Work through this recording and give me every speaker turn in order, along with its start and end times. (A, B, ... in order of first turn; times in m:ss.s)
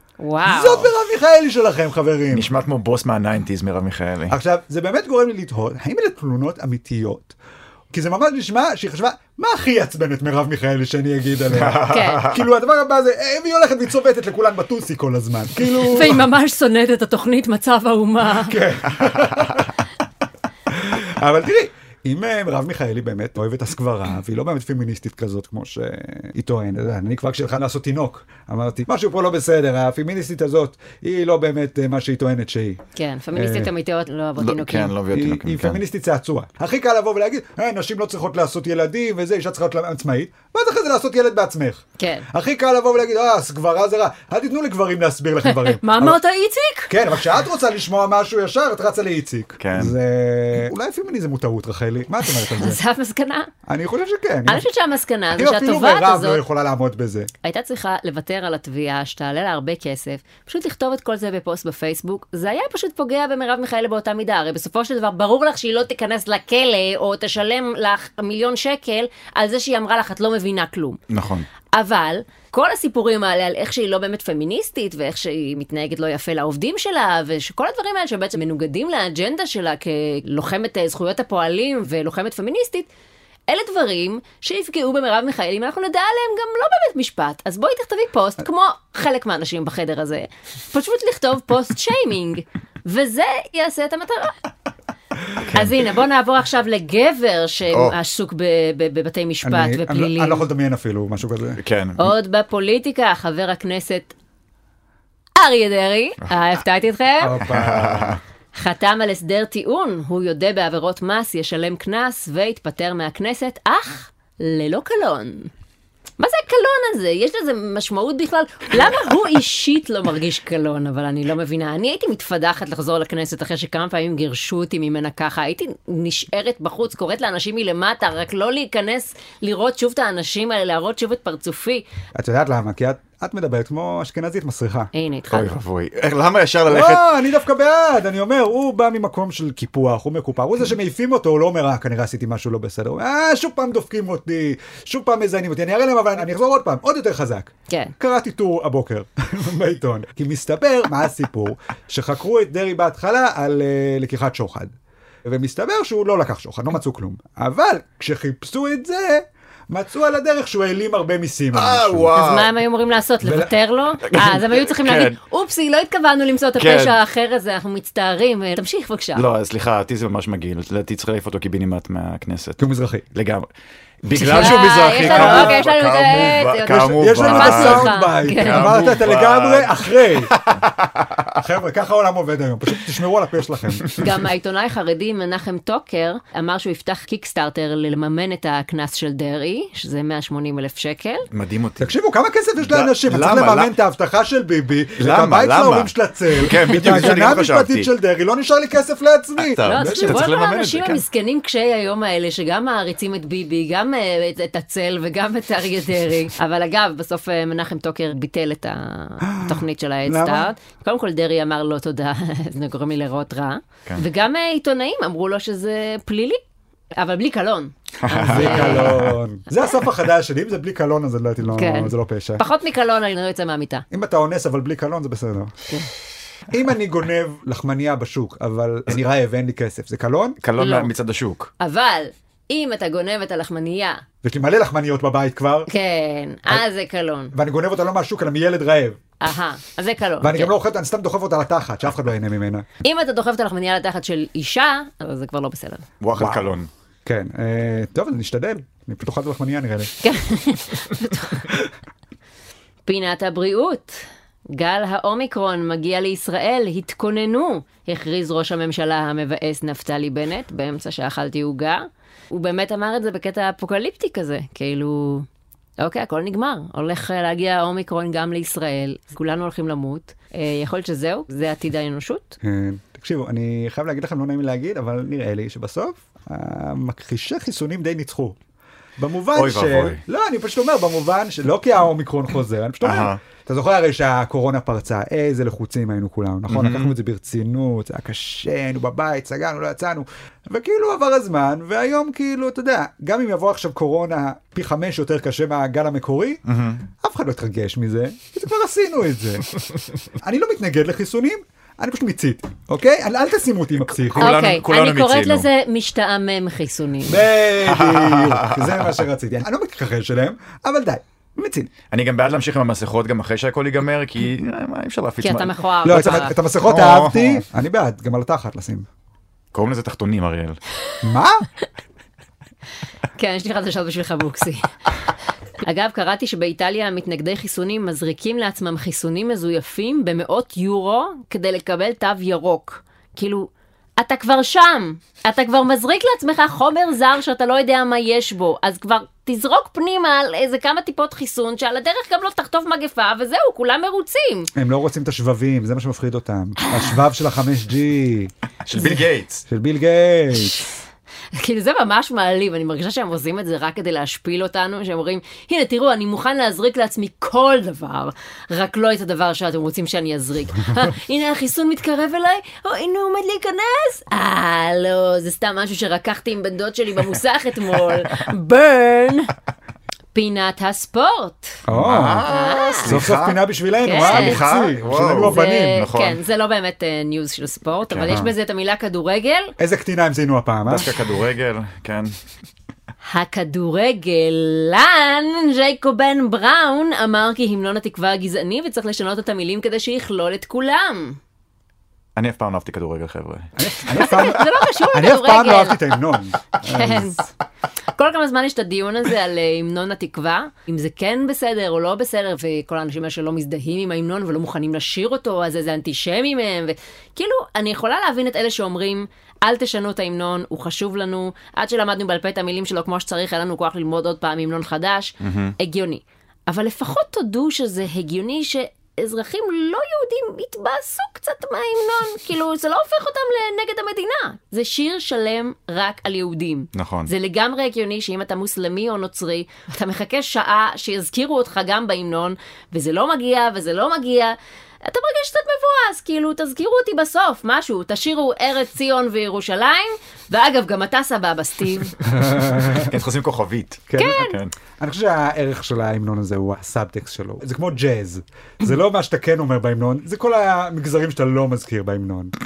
0:00.2-0:00.9 A
0:00.4-0:02.5 B
0:02.3-0:04.4 C
0:04.3-0:07.3 B
0:07.9-0:16.2 B
0:11.5-0:12.4 C
0:11.8-0:12.2 A
0:15.7-0:18.6 A
0:18.4-0:19.7 B
0:20.7-0:32.8 B
0:33.0-0:34.9 A
0:33.3-0:33.7 B
0:34.4-0:35.8 C
0:35.1-0:46.2 B
0:42.0-0:42.3 A
0:45.4-0:46.9 A
0:46.9-0:52.8 B
0:49.6-0:50.0 C
0:52.2-0:53.5 A
0:53.6-0:54.7 B
0:54.5-0:56.4 A
0:55.3-0:57.3 B
0:57.4-1:11.0 A
1:11.1-1:11.5 C
1:11.7-1:22.9 A
1:23.5-1:34.4 A
1:35.4-1:35.8 C
1:35.5-1:40.4 A
1:37.7-1:38.0 C
1:39.4-1:41.6 B
1:41.6-1:42.1 C
1:42.0-1:44.1 A
1:45.4-1:47.4 A
1:47.2-1:48.2 B
1:47.4-1:48.2 C
1:48.5-1:55.5 A
1:56.2-2:11.8 A
2:12.1-2:14.9 B
2:14.9-2:15.5 A
2:15.3-2:17.0 C
2:16.7-2:34.7 B
2:27.7-2:27.9 A
2:35.2-2:42.1 B
2:41.5-2:42.5 C
2:42.1-2:49.2 A
2:43.2-2:43.5 B
2:44.0-2:45.2 C
2:46.6-2:47.0 C
2:49.1-2:52.6 C
2:52.6-2:53.0 B
2:53.1-2:53.5 C
2:54.0-3:01.3 C
2:54.1-2:55.6 B
2:54.1-2:58.8 A
2:57.0-3:00.4 B
3:01.3-3:04.0 B
3:03.9-3:11.3 A
3:11.3-3:11.9 C
3:11.8-3:20.3 B
3:12.6-3:13.7 C
3:15.0-3:17.9 C
3:16.7-3:16.9 A
3:19.4-3:21.0 C
3:19.6-3:39.0 A
3:29.2-3:30.5 B
3:38.0-3:39.2 C
3:38.3-3:42.4 B
3:41.5-3:43.9 A
3:43.9-3:45.6 B
3:46.5-3:50.4 B
3:50.4-3:51.5 C
3:50.6-3:50.9 A
3:51.6-3:54.0 A
3:54.2-3:55.7 B
3:55.7-3:57.3 A
3:57.3-3:59.0 B
3:59.2-4:00.5 A
4:00.2-4:02.6 B
4:02.8-4:05.9 A
4:06.0-4:06.7 C
4:06.1-4:06.5 B
4:07.0-4:10.0 B
4:10.0-4:11.4 A
4:12.8-4:25.3 A
4:25.8-4:32.4 A
4:32.4-4:38.4 B
4:39.0-4:56.4 B
4:39.3-4:40.0 C
4:42.8-4:43.2 C
4:46.5-4:46.9 C
4:56.4-4:56.9 C
4:57.0-4:59.6 B
5:00.2-5:04.4 B
5:04.1-5:05.5 C
5:04.2-5:07.2 A
5:07.1-5:11.7 B
5:07.6-5:08.9 C
5:11.9-5:17.4 C
5:15.2-5:16.4 A
5:15.8-5:18.9 B
5:19.5-5:20.6 C
5:21.0-5:21.4 B
5:23.2-5:24.7 A
5:25.6-5:44.5 A
5:44.6-5:50.6 B
5:46.6-5:46.9 A
5:48.6-5:49.4 C
5:50.4-5:50.7 A
5:51.3-6:09.3 A
6:10.1-6:11.6 A
6:11.7-6:12.2 B
6:11.7-6:13.4 C
6:12.2-6:12.9 A
6:12.8-6:15.8 B
6:13.8-6:14.4 A
6:13.9-6:16.2 C
6:15.1-6:19.5 A
6:17.9-6:18.2 C
6:19.6-6:20.9 B
6:20.6-6:22.1 C
6:23.0-6:31.2 A
6:32.1-6:33.8 C
6:33.6-6:37.2 B
6:33.9-6:35.8 A
6:36.6-6:37.2 A
6:37.9-7:22.0 A
6:55.2-6:55.5 C
7:06.7-7:07.1 C
7:22.1-7:22.9 B
7:22.2-7:24.5 C
7:23.9-7:24.2 B
7:24.0-7:24.4 A
7:24.8-7:32.3 B